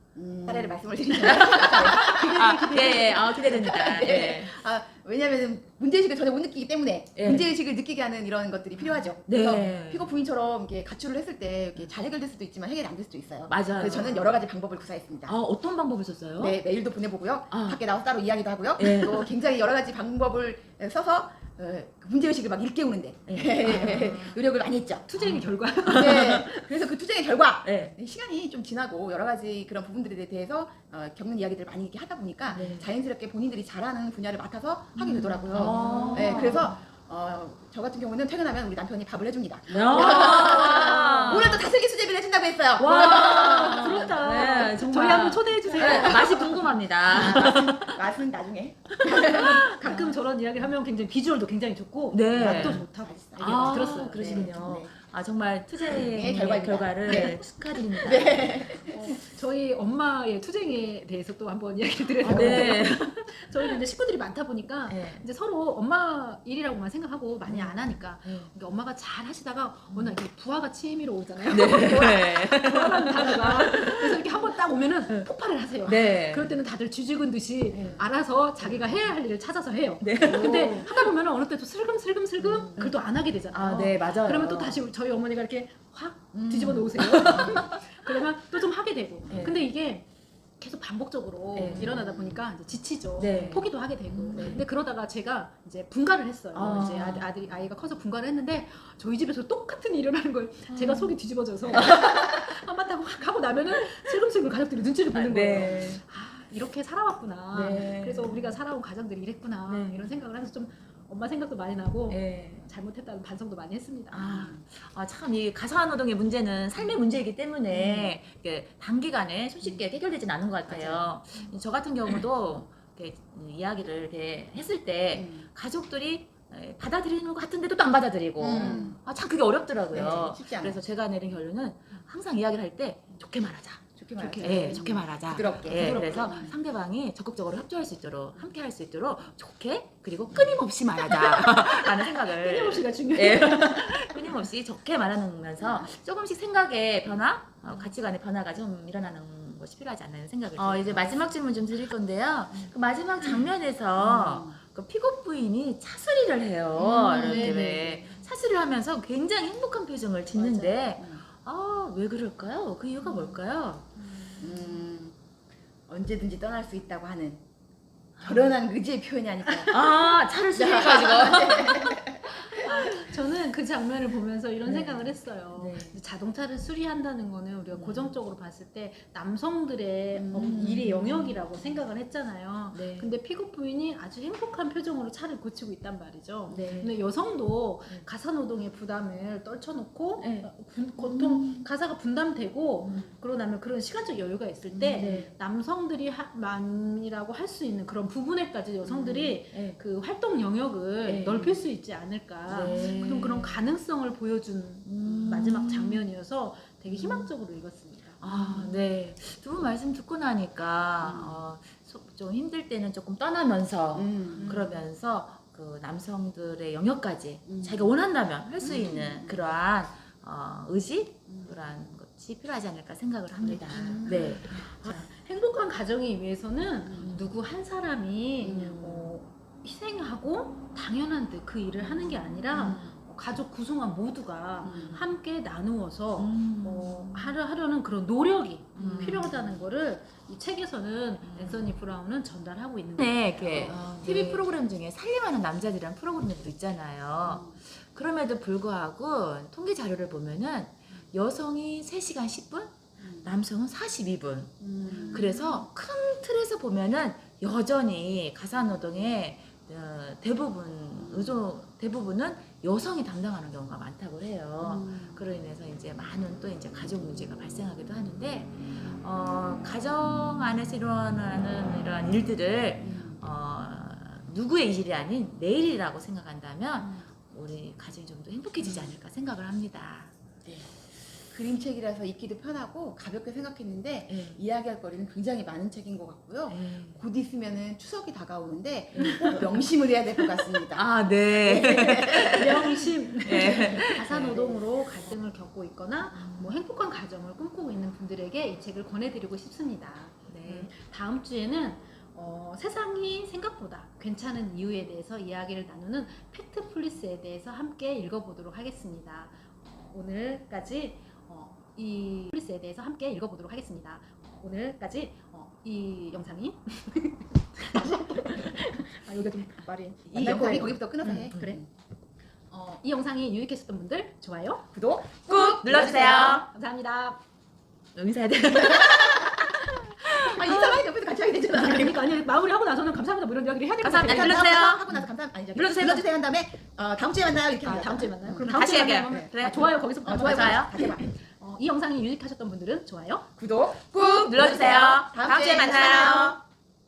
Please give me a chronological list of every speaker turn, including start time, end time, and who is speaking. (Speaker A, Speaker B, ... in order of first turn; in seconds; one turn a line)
Speaker A: 0.1-15.3
Speaker B: 1.2-4.5
Speaker C: 1.2-3.7
Speaker B: 7.2-7.5
Speaker B: 9.2-10.1
Speaker B: 13.5-14.4
Speaker B: 15.2-16.6
Speaker A: 16.4-25.1
Speaker B: 17.5-17.8
Speaker B: 18.8-19.3
Speaker B: 23.3-24.4
Speaker C: 23.6-24.2
Speaker C: 25.1-26.7
Speaker B: 25.2-26.4
Speaker A: 25.9-44.2
Speaker B: 27.6-27.9
Speaker B: 32.5-32.9
Speaker C: 32.5-32.8
Speaker B: 35.0-36.8
Speaker C: 35.3-36.7
Speaker B: 39.7-41.6
Speaker C: 39.9-41.6
Speaker B: 42.8-48.0
Speaker C: 42.9-47.6
Speaker A: 45.7-46.4
Speaker A: 47.1-50.2
Speaker B: 48.9-50.0
Speaker C: 49.0-54.8
Speaker B: 52.1-52.8
Speaker A: 52.4-54.9
Speaker B: 53.4-58.5
Speaker A: 55.8-57.4
Speaker C: 57.0-57.4
Speaker A: 58.0-59.1
Speaker C: 58.8-90.1
Speaker A: 62.2-62.9
Speaker B: 62.2-63.3
Speaker B: 64.9-65.2
Speaker B: 67.4-68.5
Speaker B: 69.9-70.2
Speaker B: 71.5-74.2
Speaker B: 75.8-76.6
Speaker B: 77.7-78.0
Speaker A: 77.7-78.0
Speaker B: 80.0-81.1
Speaker B: 82.4-82.9
Speaker B: 83.5-84.8
Speaker A: 86.3-87.5
Speaker B: 86.6-87.7
Speaker B: 89.3-89.6
Speaker C: 90.6-114.4
Speaker B: 91.5-92.0
Speaker A: 91.6-92.4
Speaker B: 93.2-94.6
Speaker A: 94.2-94.6
Speaker B: 96.5-97.3
Speaker B: 100.7-101.1
Speaker B: 101.7-102.5
Speaker B: 105.1-106.0
Speaker B: 107.5-108.6
Speaker B: 109.7-110.2
Speaker B: 112.1-112.7
Speaker B: 114.1-163.8
Speaker A: 114.3-114.6
Speaker A: 117.7-118.2
Speaker A: 120.7-121.5
Speaker A: 125.1-125.5
Speaker A: 128.4-129.0
Speaker C: 128.4-128.9
Speaker A: 129.9-130.8
Speaker A: 133.9-136.6
Speaker C: 134.2-134.8
Speaker C: 135.4-136.5
Speaker A: 140.3-140.6
Speaker C: 141.1-144.5
Speaker A: 145.6-145.9
Speaker A: 150.6-151.2
Speaker A: 152.5-154.6
Speaker A: 156.8-158.0
Speaker C: 157.1-158.0
Speaker A: 160.3-161.2
Speaker C: 164.0-164.8
Speaker A: 164.4-165.2
Speaker A: 165.9-167.4
Speaker B: 168.2-168.6
Speaker A: 168.2-169.9
Speaker B: 169.7-172.0
Speaker A: 170.5-172.2
Speaker C: 172.2-208.2
Speaker B: 174.6-176.0
Speaker B: 177.7-178.1
Speaker A: 180.1-180.8
Speaker B: 180.3-181.4
Speaker B: 182.7-183.1
Speaker B: 186.5-186.9
Speaker B: 190.2-190.5
Speaker B: 191.0-191.7
Speaker B: 192.8-193.1
Speaker A: 194.8-195.3
Speaker B: 194.9-195.3
Speaker B: 198.8-199.8
Speaker B: 201.0-201.6
Speaker B: 202.4-203.7
Speaker B: 204.8-206.1
Speaker A: 205.0-205.3
Speaker B: 208.2-225.0
Speaker A: 211.0-211.4
Speaker A: 213.9-214.7
Speaker C: 214.4-214.8
Speaker A: 217.5-217.9
Speaker A: 218.6-219.4
Speaker A: 221.3-221.5
Speaker C: 223.4-244.4
Speaker A: 223.7-224.4
Speaker A: 226.9-227.2
Speaker A: 228.4-228.8
Speaker B: 228.4-229.2
Speaker B: 232.5-232.9
Speaker A: 234.6-235.0
Speaker B: 236.2-237.3
Speaker B: 238.8-239.4
Speaker A: 238.8-239.4
Speaker B: 241.2-241.7
Speaker B: 243.0-280.1
Speaker A: 247.2-247.6
Speaker A: 253.0-253.3
Speaker C: 254.6-255.5
Speaker A: 254.8-255.4
Speaker A: 261.0-261.3
Speaker A: 264.6-265.3
Speaker A: 272.8-273.2
Speaker A: 276.8-277.1
Speaker A: 278.6-278.9
Speaker A: 281.3-292.7
Speaker B: 284.1-284.4
Speaker B: 286.5-287.0
Speaker B: 288.9-289.7
Speaker C: 289.0-289.4
Speaker B: 290.7-294.5
Speaker C: 292.2-321.6
Speaker A: 293.3-293.7
Speaker B: 296.1-296.5
Speaker B: 300.3-300.7
Speaker B: 320.1-320.7
Speaker A: 320.1-321.6
Speaker C: 322.5-324.6
Speaker A: 324.7-326.4
Speaker B: 325.3-326.5
Speaker C: 325.7-327.2
Speaker B: 327.9-330.3
Speaker A: 328.5-329.4
Speaker C: 330.1-334.5
Speaker A: 330.2-332.0
Speaker B: 333.8-336.0
Speaker A: 334.0-341.0
Speaker C: 337.6-343.3
Speaker B: 338.4-340.8
Speaker A: 343.4-346.4
Speaker B: 343.9-346.4